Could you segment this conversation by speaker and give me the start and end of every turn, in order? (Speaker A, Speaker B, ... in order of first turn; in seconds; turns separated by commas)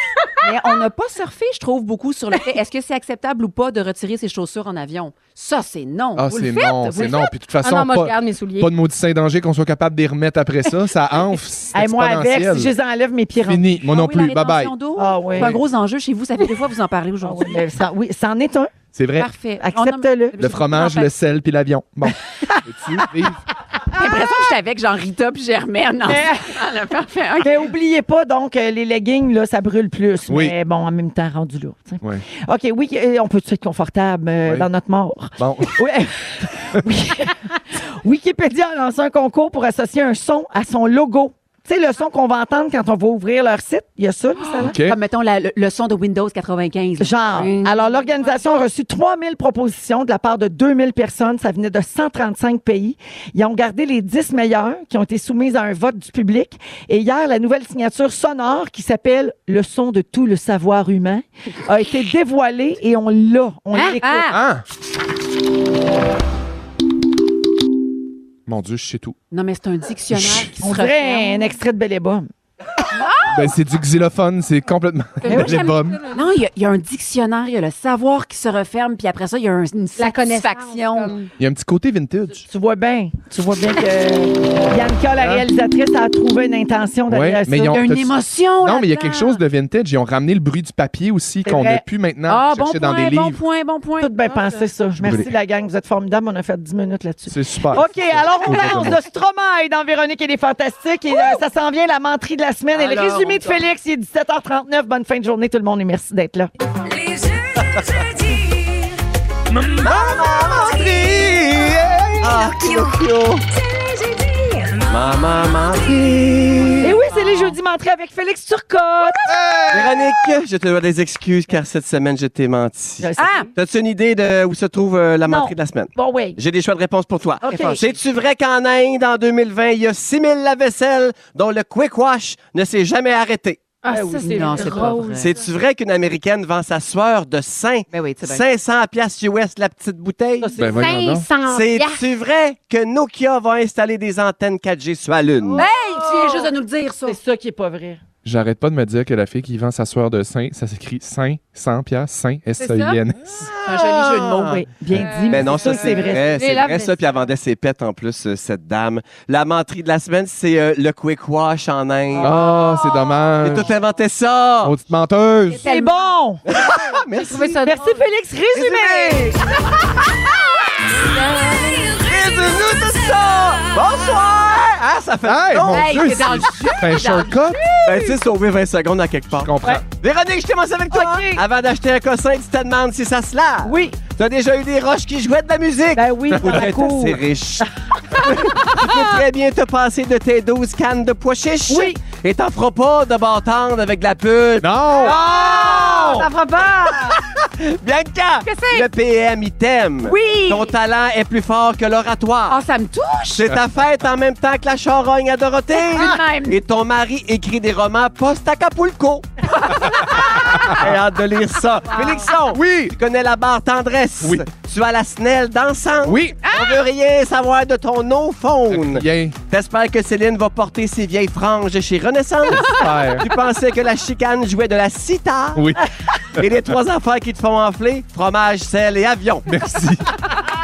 Speaker A: 0.4-7.3, Speaker B: 6.2-12.7, Speaker C: 7.6-8.7, Speaker D: 11.7-13.7, Speaker B: 13.4-14.7, Speaker A: 13.8-17.6, Speaker D: 14.9-15.6, Speaker D: 17.2-18.7, Speaker B: 18.9-19.3, Speaker A: 19.2-21.1, Speaker D: 19.6-20.4, Speaker B: 20.4-23.4, Speaker A: 23.9-27.7, Speaker D: 26.1-26.5, Speaker D: 27.4-44.7, Speaker B: 30.3-30.5, Speaker B: 34.4-34.7, Speaker B: 35.4-35.8, Speaker A: 44.4-47.8, Speaker B: 44.6-45.0, Speaker D: 47.0-64.3, Speaker C: 63.7-64.3, Speaker B: 64.3-64.6, Speaker B: 68.5-69.2, Speaker A: 69.3-71.5, Speaker B: 70.1-70.5, Speaker D: 70.6-72.3, Speaker B: 73.3-76.0, Speaker C: 75.2-76.2, Speaker A: 75.3-81.1, Speaker C: 80.0-81.3, Speaker B: 81.4-82.5, Speaker D: 82.5-87.8, Speaker B: 85.2-85.5, Speaker B: 87.1-93.4, Speaker A: 87.7-89.4, Speaker D: 91.4-91.8, Speaker A: 92.3-94.1, Speaker D: 94.0-106.5, Speaker B: 95.0-95.3, Speaker B: 97.3-99.0, Speaker A: 102.7-103.6, Speaker E: 106.9-109.0, Speaker F: 109.7-113.4, Speaker B: 111.1-112.1, Speaker E: 112.5-112.9, Speaker E: 113.6-114.9, Speaker F: 114.8-117.0, Speaker D: 116.8-119.3, Speaker B: 119.3-120.0, Speaker F: 119.7-133.7, Speaker D: 123.0-123.4, Speaker A: 123.2-123.5, Speaker D: 125.3-126.4, Speaker D: 127.4-127.8, Speaker A: 127.5-127.9, Speaker C: 133.8-135.0, Speaker D: 133.9-135.3, Speaker A: 134.2-135.3, Speaker F: 135.1-140.5, Speaker A: 137.9-138.4, Speaker D: 140.4-141.0, Speaker B: 140.6-141.3, Speaker C: 140.7-142.0, Speaker F: 141.4-145.7, Speaker D: 145.6-146.5, Speaker A: 145.6-147.2, Speaker D: 147.0-148.0, Speaker B: 148.2-153.5, Speaker C: 152.6-153.0, Speaker F: 153.4-154.6, Speaker A: 153.7-154.6, Speaker D: 154.5-156.4, Speaker C: 155.0-156.9, Speaker F: 155.3-162.4, Speaker B: 162.2-163.7, Speaker F: 163.3-164.7, Speaker B: 164.6-165.6, Speaker D: 165.6-166.4, Speaker C: 165.7-165.9, Speaker F: 166.4-167.8, Speaker C: 167.2-168.0, Speaker D: 167.6-169.3, Speaker F: 168.5-170.1, Speaker F: 171.1-176.0, Speaker B: 175.2-177.6, Speaker A: 175.6-178.2, Speaker F: 177.8-196.3, Speaker B: 179.3-179.8, Speaker D: 180.9-181.4, Speaker D: 183.6-184.0, Speaker D: 185.9-187.7, Speaker B: 186.4-186.6, Speaker D: 191.7-192.0, Speaker B: 194.6-195.2, Speaker D: 195.1-196.2, Speaker C: 196.2-197.0, Speaker A: 196.2-196.7, Speaker F: 196.9-202.6, Speaker A: 198.4-198.9, Speaker A: 200.0-200.8, Speaker A: 202.5-203.6, Speaker F: 203.4-209.3, Speaker A: 205.8-206.6, Speaker A: 209.5-210.8, Speaker F: 210.3-225.7, Speaker A: 211.9-212.3, Speaker B: 212.5-212.9, Speaker B: 216.0-216.4, Speaker A: 216.4-216.8, Speaker B: 218.7-219.4, Speaker B: 222.6-223.2, Speaker B: 225.5-226.5, Speaker F: 226.4-229.5, Speaker B: 229.4-230.1